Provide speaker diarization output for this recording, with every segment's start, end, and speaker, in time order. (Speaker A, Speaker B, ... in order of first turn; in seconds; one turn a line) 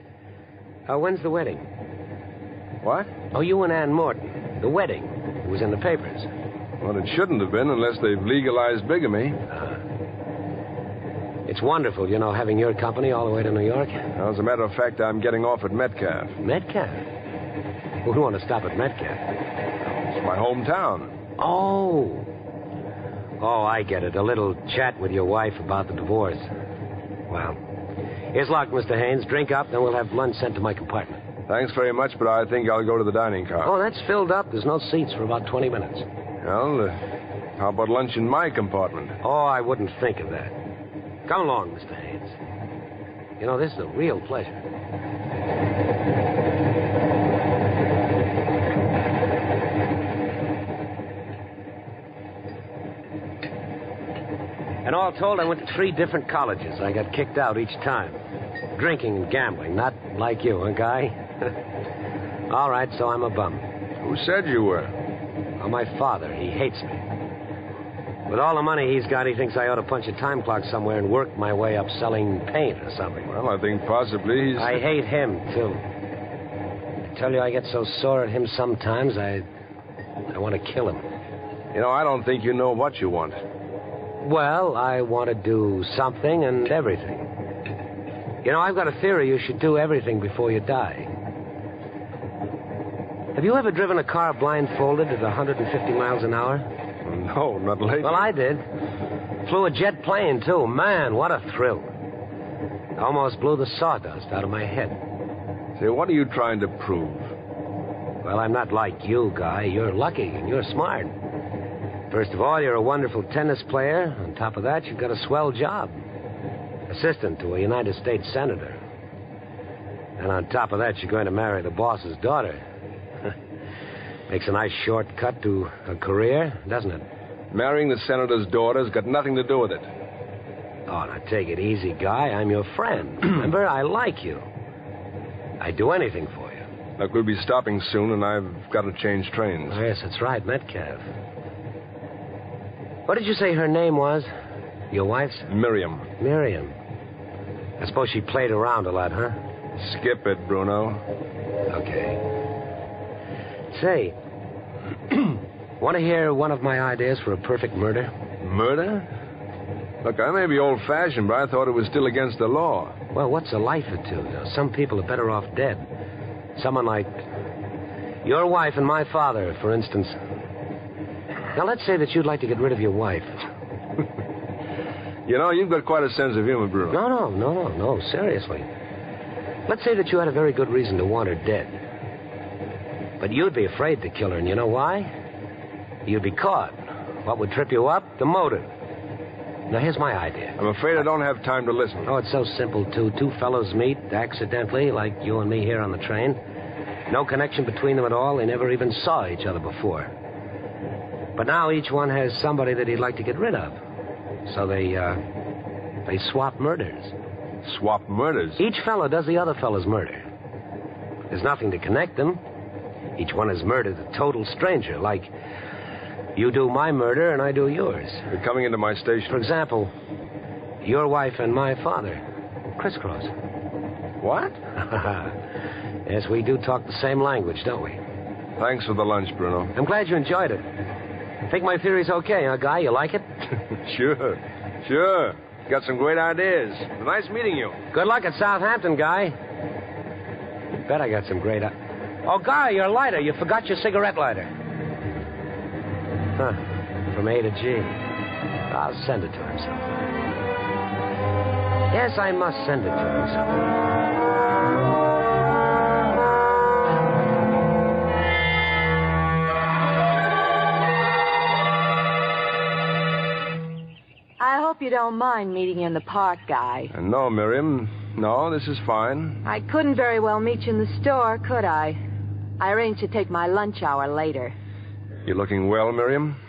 Speaker A: 0.9-1.7
Speaker B: 2.8-3.2
Speaker A: 3.3-6.3
Speaker B: 6.8-9.4
Speaker A: 11.5-14.1
Speaker B: 14.2-16.4
Speaker A: 16.4-17.0
Speaker A: 18.1-19.3
Speaker B: 19.8-21.1
Speaker A: 21.4-22.3
Speaker A: 23.4-26.5
Speaker A: 27.3-27.6
Speaker A: 28.3-31.2
Speaker B: 31.5-33.7
Speaker A: 33.6-36.1
Speaker B: 36.4-37.0
Speaker B: 37.6-39.2
Speaker A: 39.2-40.6
Speaker A: 41.3-42.4
Speaker A: 43.4-44.6
Speaker A: 54.8-58.2
Speaker A: 58.7-61.2
Speaker A: 62.5-63.6
Speaker B: 64.0-64.9
Speaker A: 65.6-67.0
Speaker A: 68.3-73.3
Speaker B: 73.3-74.8
Speaker A: 74.6-75.8
Speaker A: 77.1-79.5
Speaker A: 80.3-81.1
Speaker B: 81.7-83.4
Speaker A: 84.2-87.3
Speaker A: 88.4-91.1
Speaker A: 93.3-96.7
Speaker B: 97.0-98.3
Speaker A: 98.0-98.6
Speaker A: 99.4-101.9
Speaker A: 103.0-105.0
Speaker B: 105.8-107.3
Speaker A: 108.2-111.2
Speaker A: 112.1-116.0
Speaker A: 116.9-118.8
Speaker A: 120.2-122.6
Speaker A: 124.3-127.0
Speaker B: 127.5-129.9
Speaker A: 130.9-134.5
Speaker A: 135.6-136.7
Speaker B: 137.0-139.8
Speaker A: 139.7-141.1
Speaker A: 143.1-144.3
Speaker A: 144.9-145.5
Speaker B: 145.5-146.1
Speaker A: 146.2-146.7
Speaker A: 147.8-149.4
Speaker B: 149.8-151.0
Speaker A: 151.7-152.2
Speaker A: 153.7-154.2
Speaker A: 155.1-158.1
Speaker B: 158.4-159.1
Speaker B: 160.0-163.0
Speaker A: 163.1-165.9
Speaker A: 166.6-167.2
Speaker A: 168.2-170.2
Speaker A: 171.5-173.4
Speaker B: 175.3-177.0
Speaker A: 176.9-178.7
Speaker A: 179.7-181.8
Speaker A: 183.2-185.1
Speaker A: 186.1-188.7
Speaker A: 189.7-190.6
Speaker B: 190.6-192.1
Speaker A: 192.1-196.4
Speaker A: 197.1-200.1
Speaker A: 201.4-203.8
Speaker A: 204.4-205.2
Speaker A: 206.1-207.1
Speaker B: 207.6-208.6
Speaker A: 208.6-210.2
Speaker A: 211.3-212.4
Speaker A: 213.2-215.3
Speaker A: 216.4-218.3
Speaker B: 218.3-219.4
Speaker A: 219.3-219.9
Speaker A: 220.8-222.2
Speaker A: 222.8-223.3
Speaker B: 224.2-224.6
Speaker A: 224.8-225.4
Speaker A: 226.1-228.0
Speaker B: 228.6-229.7
Speaker A: 229.8-230.7
Speaker A: 231.5-233.3
Speaker B: 233.8-237.8
Speaker A: 237.9-239.3
Speaker A: 240.8-244.5
Speaker A: 246.4-248.0
Speaker A: 248.7-249.9
Speaker A: 251.9-253.7
Speaker C: 264.4-266.9
Speaker B: 266.9-269.4
Speaker C: 269.4-272.0
Speaker C: 272.6-274.5
Speaker B: 275.3-276.4